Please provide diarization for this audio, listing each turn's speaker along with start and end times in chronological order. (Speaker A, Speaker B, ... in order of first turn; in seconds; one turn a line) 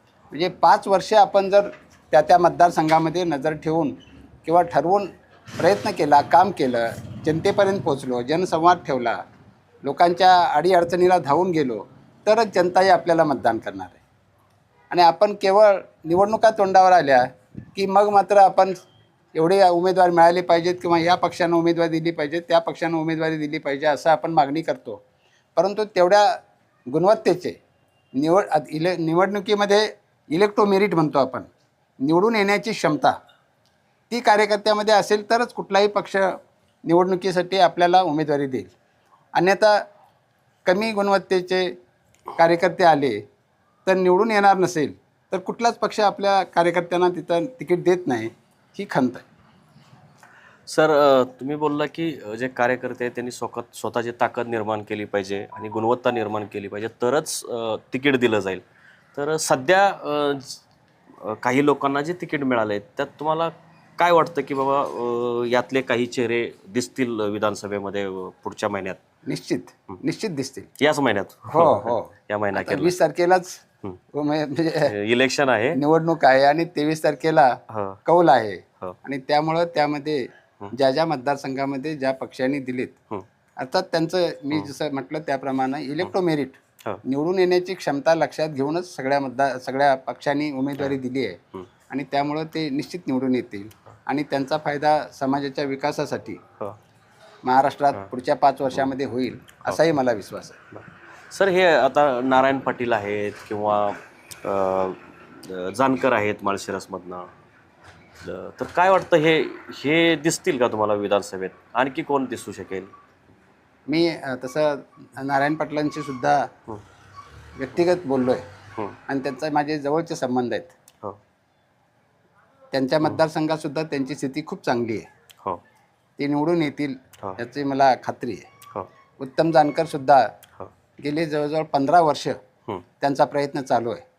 Speaker A: 0.3-9.2
Speaker A: 9.8-14.0
Speaker A: 14.9-18.8
Speaker A: 19.3-25.0
Speaker A: 25.6-26.4
Speaker A: 26.9-27.6
Speaker A: 28.1-31.5
Speaker A: 32.0-33.1
Speaker A: 34.1-38.7
Speaker A: 39.3-39.8
Speaker A: 40.6-41.7
Speaker A: 42.4-43.2
Speaker A: 43.9-49.2
Speaker B: 50.7-58.6
Speaker B: 59.1-60.6
Speaker B: 61.2-69.0
Speaker A: 69.2-70.7
Speaker B: 70.8-72.9
Speaker A: 71.5-73.6
Speaker A: 74.1-74.9
Speaker B: 74.8-75.8
Speaker A: 75.7-82.9
Speaker B: 77.7-78.0
Speaker A: 83.6-91.4
Speaker A: 91.9-96.4
Speaker A: 97.4-100.6
Speaker B: 100.7-107.3
Speaker B: 108.2-112.9
Speaker A: 113.9-116.5
Speaker A: 117.5-118.4
Speaker A: 119.1-120.7
Speaker A: 122.7-125.1
Speaker A: 126.2-128.5
Speaker A: 129.2-130.2
Speaker A: 131.0-132.4
Speaker A: 133.0-134.0